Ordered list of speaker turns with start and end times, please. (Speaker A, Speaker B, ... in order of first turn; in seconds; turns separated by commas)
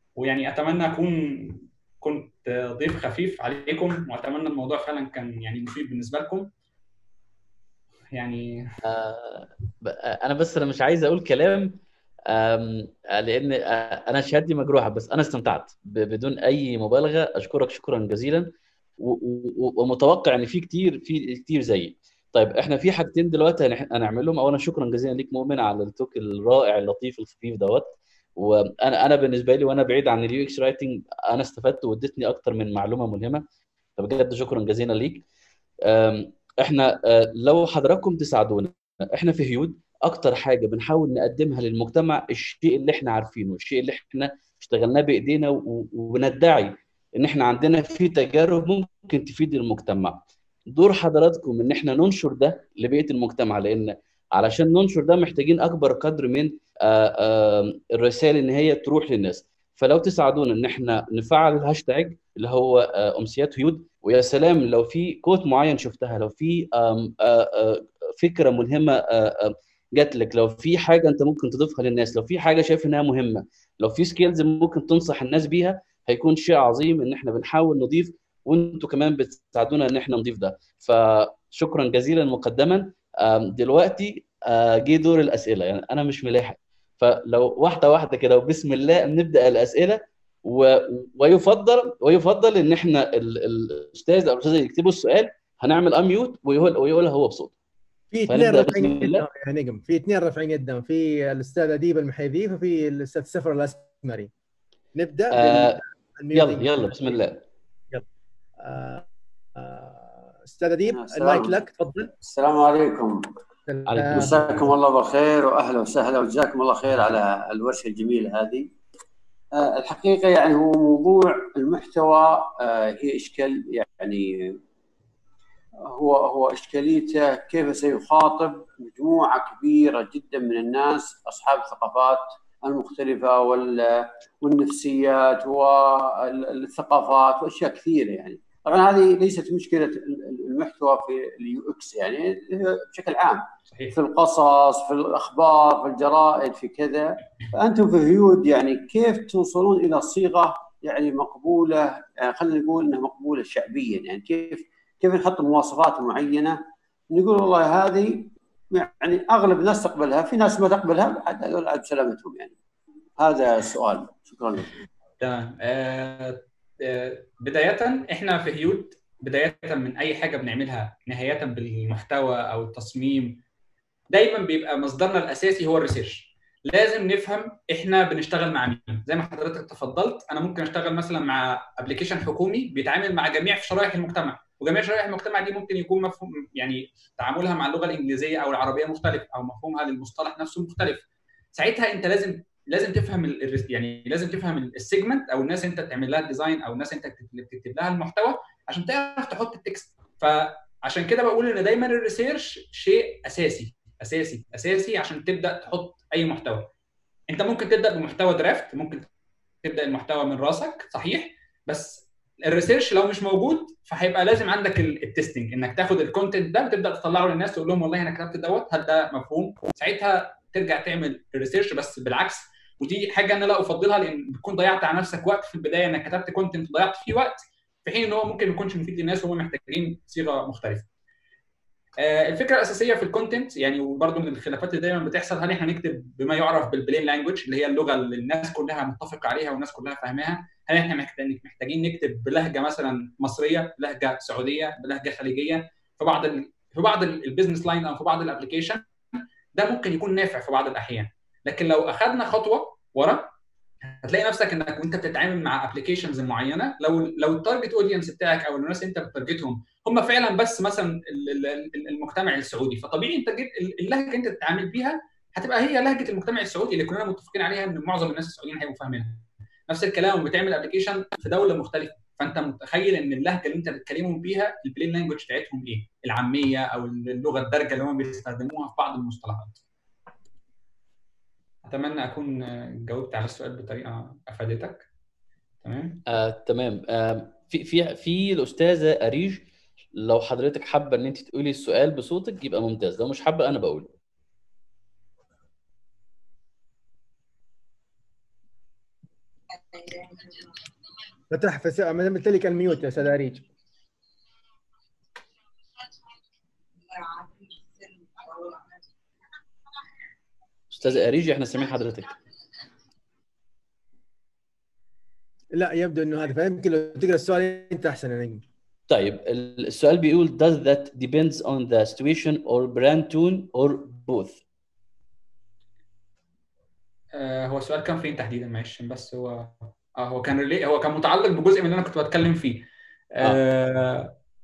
Speaker A: 0.1-6.5, Speaker A: 8.1-8.7, Speaker B: 8.8-33.4, Speaker B: 34.0-35.2, Speaker B: 35.8-97.5, Speaker C: 98.1-104.3, Speaker B: 98.3-99.2, Speaker C: 104.9-106.8, Speaker B: 105.3-105.8, Speaker B: 106.3-107.4, Speaker C: 108.6-112.1, Speaker D: 110.9-111.5, Speaker D: 112.2-113.2, Speaker C: 113.7-114.7, Speaker B: 113.9-114.3, Speaker D: 114.1-118.7, Speaker D: 119.5-124.6, Speaker D: 125.8-156.6, Speaker D: 157.1-162.5, Speaker D: 163.2-164.7, Speaker A: 165.2-173.4, Speaker A: 174.1-191.0, Speaker A: 191.5-206.7, Speaker A: 207.3-209.0, Speaker A: 209.6-230.8, Speaker A: 232.0-248.8, Speaker A: 249.5-253.3, Speaker A: 253.8-279.6, Speaker A: 281.6-284.9, Speaker A: 285.6-286.0, Speaker B: 286.1-293.9, Speaker C: 301.3-303.4, Speaker B: 310.7-312.2, Speaker C: 315.5-318.4, Speaker B: 318.9-324.4, Speaker A: 327.1-332.6, Speaker A: 333.2-334.1